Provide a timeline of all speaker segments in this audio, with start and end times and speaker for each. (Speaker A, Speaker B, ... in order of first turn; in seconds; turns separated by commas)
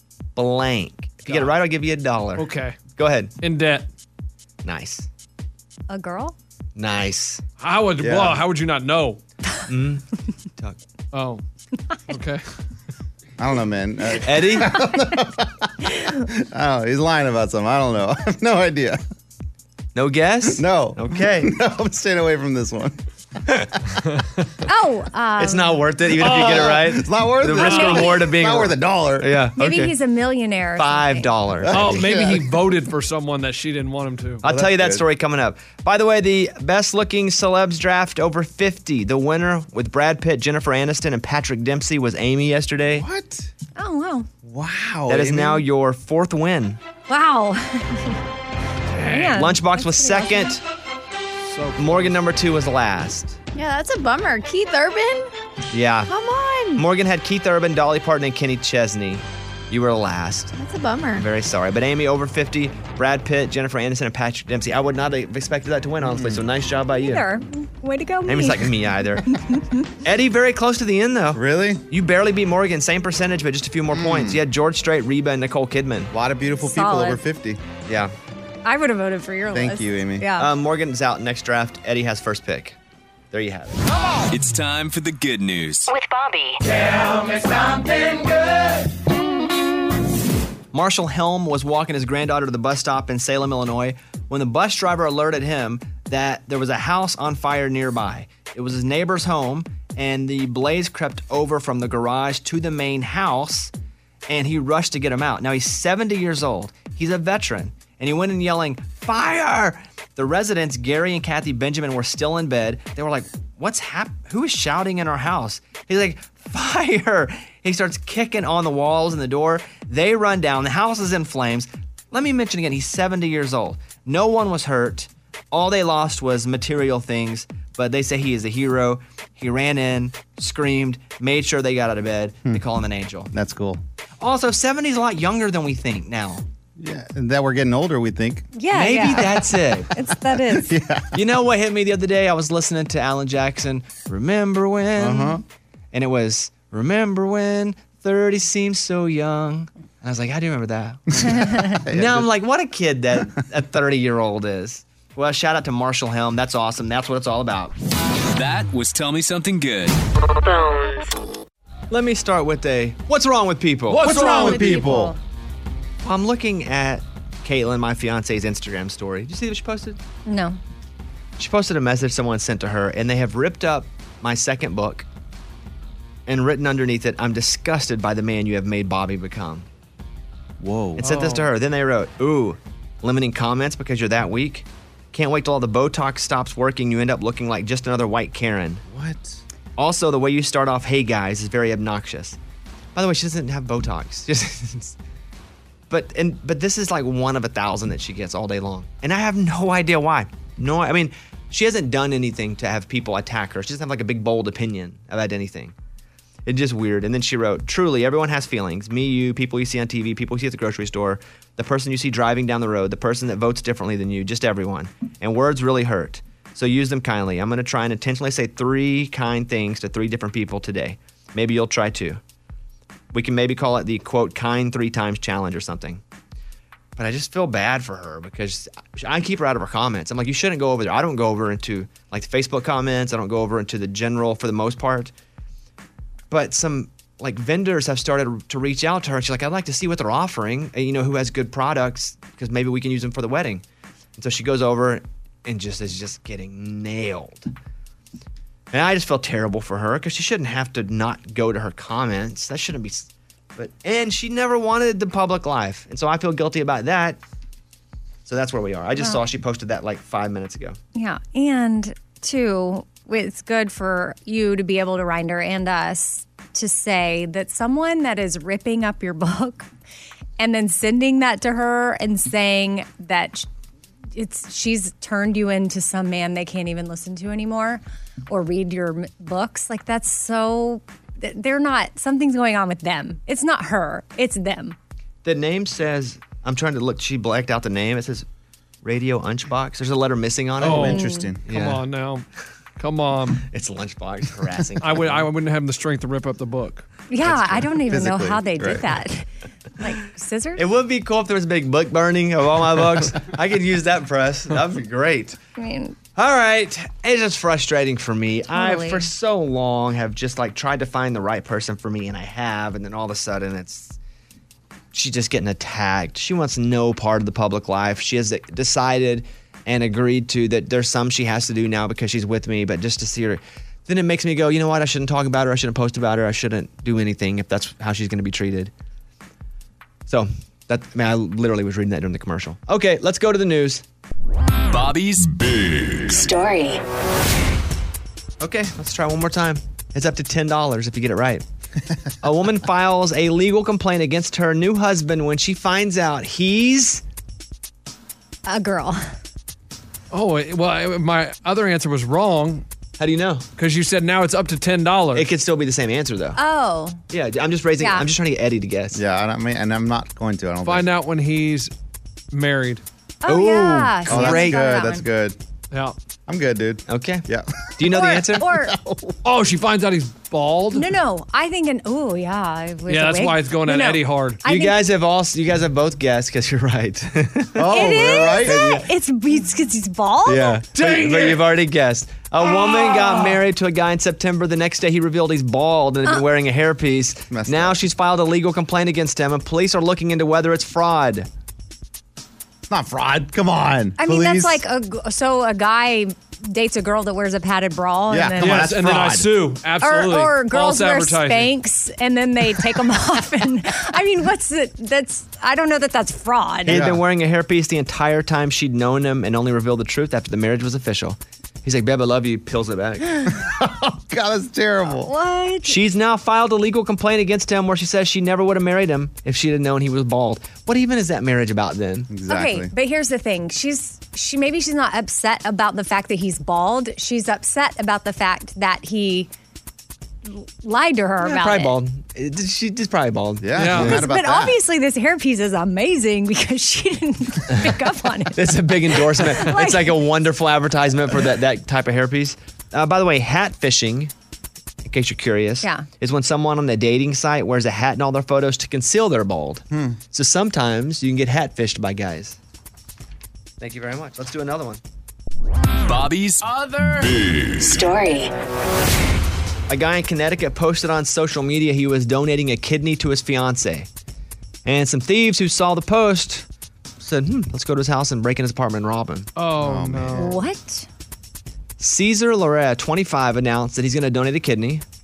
Speaker A: 0.4-3.3, Speaker B: 2.4-2.8, Speaker B: 3.4-3.9, Speaker A: 4.6-5.1, Speaker C: 5.9-6.3, Speaker A: 6.8-7.4, Speaker B: 7.6-9.2, Speaker D: 8.0-8.4, Speaker A: 9.7-10.1, Speaker B: 11.1-11.4, Speaker B: 12.1-12.4, Speaker D: 13.4-15.7, Speaker A: 14.2-14.8, Speaker C: 15.9-16.2, Speaker D: 16.3-19.0, Speaker A: 19.9-21.5, Speaker D: 20.5-23.0, Speaker C: 24.7-25.8, Speaker A: 25.4-29.9, Speaker D: 26.2-29.4, Speaker B: 26.3-26.7, Speaker C: 27.6-28.2, Speaker C: 29.6-31.3, Speaker A: 30.8-32.0, Speaker D: 31.6-32.5, Speaker B: 31.7-34.4, Speaker D: 34.4-35.0, Speaker A: 34.4-43.1, Speaker D: 42.9-43.5, Speaker C: 43.8-44.3, Speaker D: 44.4-45.6, Speaker A: 45.1-46.8, Speaker C: 47.1-48.2, Speaker B: 49.0-49.3, Speaker C: 49.0-50.5, Speaker A: 49.2-50.6, Speaker A: 51.8-53.4, Speaker E: 53.5-55.3, Speaker A: 55.7-56.1, Speaker E: 56.1-56.9, Speaker A: 56.8-60.5, Speaker E: 60.5-61.3, Speaker A: 61.2-67.2, Speaker D: 66.0-66.4, Speaker C: 67.0-68.7, Speaker A: 68.3-69.2, Speaker C: 69.2-69.9, Speaker A: 70.0-76.1, Speaker D: 71.3-71.8, Speaker D: 73.9-74.4, Speaker D: 76.1-77.6, Speaker C: 76.6-77.2, Speaker A: 77.9-78.1, Speaker C: 78.7-80.5, Speaker D: 79.5-80.3, Speaker A: 80.4-82.8, Speaker A: 83.3-83.8, Speaker F: 84.3-85.9, Speaker G: 85.9-86.6, Speaker A: 90.7-103.7, Speaker A: 104.3-133.3, Speaker D: 133.3-133.8, Speaker A: 134.2-136.4, Speaker D: 136.8-138.5, Speaker C: 138.6-140.7, Speaker A: 138.7-139.9, Speaker D: 140.5-141.1, Speaker A: 141.1-145.4, Speaker D: 145.0-145.4, Speaker A: 145.9-157.7, Speaker D: 151.1-152.3, Speaker F: 158.3-160.0, Speaker G: 160.3-161.2, Speaker A: 161.9-164.1, Speaker D: 163.9-165.2, Speaker C: 164.0-165.2, Speaker B: 164.2-164.5, Speaker A: 166.0-170.0, Speaker C: 170.3-170.6, Speaker A: 171.4-175.1, Speaker A: 176.3-179.7, Speaker D: 180.6-181.1, Speaker A: 181.0-188.8, Speaker B: 181.0-181.4, Speaker D: 188.9-189.4, Speaker A: 189.8-192.4, Speaker A: 192.9-195.0, Speaker A: 195.9-205.7, Speaker A: 206.5-222.2, Speaker A: 223.1-226.0, Speaker A: 227.0-235.1, Speaker A: 236.3-243.6, Speaker A: 244.2-247.5, Speaker A: 248.7-257.2, Speaker A: 258.3-260.8, Speaker C: 260.9-269.7, Speaker C: 270.4-273.5, Speaker C: 274.1-284.8, Speaker A: 285.2-288.3, Speaker A: 288.8-291.8, Speaker B: 290.6-292.2, Speaker D: 290.6-291.4, Speaker C: 290.9-291.3, Speaker B: 292.8-293.4, Speaker A: 293.5-295.3, Speaker B: 294.8-296.9, Speaker C: 297.1-300.6, Speaker D: 297.2-298.8, Speaker A: 300.6-305.4, Speaker C: 305.6-306.0, Speaker A: 306.2-314.0, Speaker C: 308.5-309.1, Speaker A: 314.9-328.7, Speaker A: 330.1-333.8, Speaker F: 334.7-336.3, Speaker G: 336.2-336.8, Speaker A: 338.4-341.4, Speaker A: 342.2-347.0, Speaker C: 348.5-349.1, Speaker B: 350.1-352.6, Speaker A: 353.0-353.5, Speaker B: 353.6-355.3, Speaker A: 355.1-356.4, Speaker C: 356.4-357.0, Speaker A: 357.1-359.0, Speaker C: 357.8-358.1, Speaker D: 358.9-360.9, Speaker B: 360.6-361.7, Speaker B: 362.3-362.8, Speaker C: 363.2-365.1, Speaker A: 363.3-364.6, Speaker D: 364.1-365.4, Speaker D: 366.3-367.5, Speaker A: 366.9-367.2, Speaker A: 367.8-368.5, Speaker C: 367.9-368.8, Speaker D: 368.4-369.2, Speaker B: 369.2-370.9, Speaker C: 370.7-374.8, Speaker B: 372.9-374.4, Speaker A: 374.4-378.8, Speaker D: 377.6-378.8, Speaker C: 377.7-380.6, Speaker A: 380.3-391.3, Speaker B: 380.8-381.4, Speaker D: 387.3-387.8, Speaker D: 392.7-394.6, Speaker C: 394.0-398.7, Speaker D: 398.1-399.3, Speaker B: 398.4-401.5, Speaker C: 399.8-406.8, Speaker A: 406.6-413.3, Speaker D: 406.7-407.0, Speaker D: 413.2-415.1, Speaker C: 415.0-415.8, Speaker A: 415.6-422.1, Speaker D: 422.1-422.7, Speaker C: 422.3-429.3, Speaker C: 430.3-431.7, Speaker A: 431.2-434.0, Speaker D: 433.4-434.6, Speaker B: 433.6-434.0, Speaker C: 433.8-438.4, Speaker A: 438.4-444.1, Speaker C: 438.9-440.0, Speaker A: 444.9-452.4, Speaker D: 449.7-450.0, Speaker A: 453.6-454.8, Speaker F: 455.9-457.8, Speaker G: 457.7-458.3, Speaker A: 459.7-463.9, Speaker A: 464.6-466.5, Speaker A: 467.0-469.3, Speaker B: 469.4-470.3, Speaker D: 469.6-470.3, Speaker C: 470.1-470.9, Speaker A: 471.8-474.8